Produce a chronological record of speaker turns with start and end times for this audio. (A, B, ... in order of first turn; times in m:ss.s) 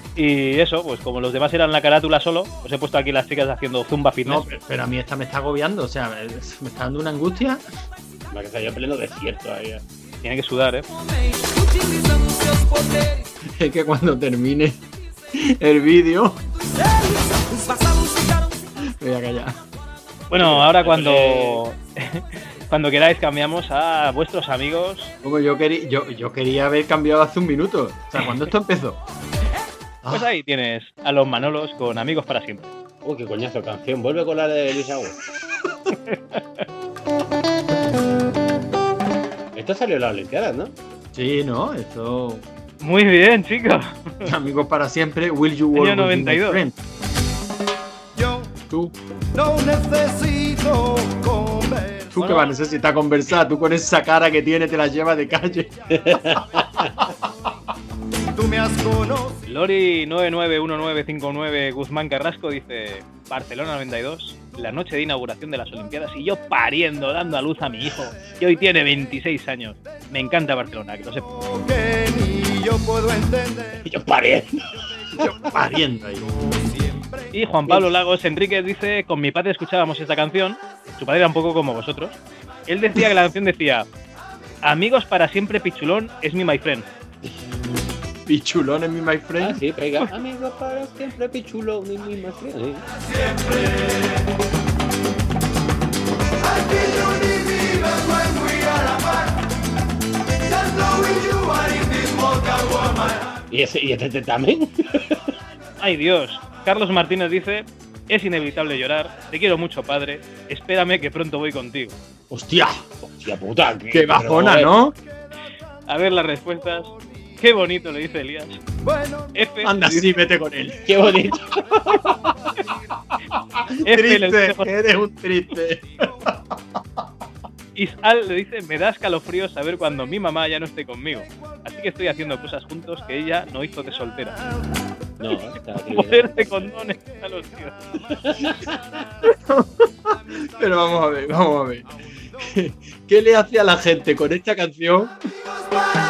0:00.2-0:04.5 A
0:04.2-0:07.6 B
0:08.3-0:09.8 C
0:10.2-0:10.9 A
0:13.6-0:14.8 B
0:15.3-0:16.4 B
0:19.0-0:19.6 B
0:20.3-0:25.1 A
0:20.3-0:21.6 C
0:25.2-0:29.0 B
0:30.1-0:32.7 A
0:33.0-0:35.2 C
0:36.1-0:36.6 A
0:39.5-0:40.8 C
0:41.2-0:42.4 B
0:42.8-0:44.3 A
0:44.2-0:46.8 B
0:45.7-0:46.6 A
0:48.2-0:48.5 D
0:48.7-0:48.9 B
0:49.4-0:52.1 D
0:52.1-0:55.7 B
0:52.2-0:52.5 A
0:55.9-0:57.0 C
0:56.8-0:57.1 B
0:58.4-0:59.4 D
0:59.5-1:11.3 A
1:11.4-1:13.7 D
1:13.8-1:15.3 C
1:15.2-1:16.3 B
1:17.3-1:23.9 A
1:24.6-1:26.9 A
1:28.3-1:29.6 B
1:29.4-1:32.9 C
1:43.5-1:45.4 C
1:45.8-1:52.0 A
1:52.3-1:52.8 B
1:53.0-1:54.8 C
1:53.9-1:55.0 B
1:55.9-1:58.6 A
1:58.9-1:59.3 D
1:59.3-2:00.1 A
1:59.6-2:01.1 B
2:00.9-2:02.2 C
2:03.7-2:06.5 B
2:03.9-2:04.7 A
2:07.8-2:14.4 A
2:15.2-2:16.7 C
2:15.9-2:17.8 A
2:18.1-2:19.1 C
2:19.3-2:25.1 B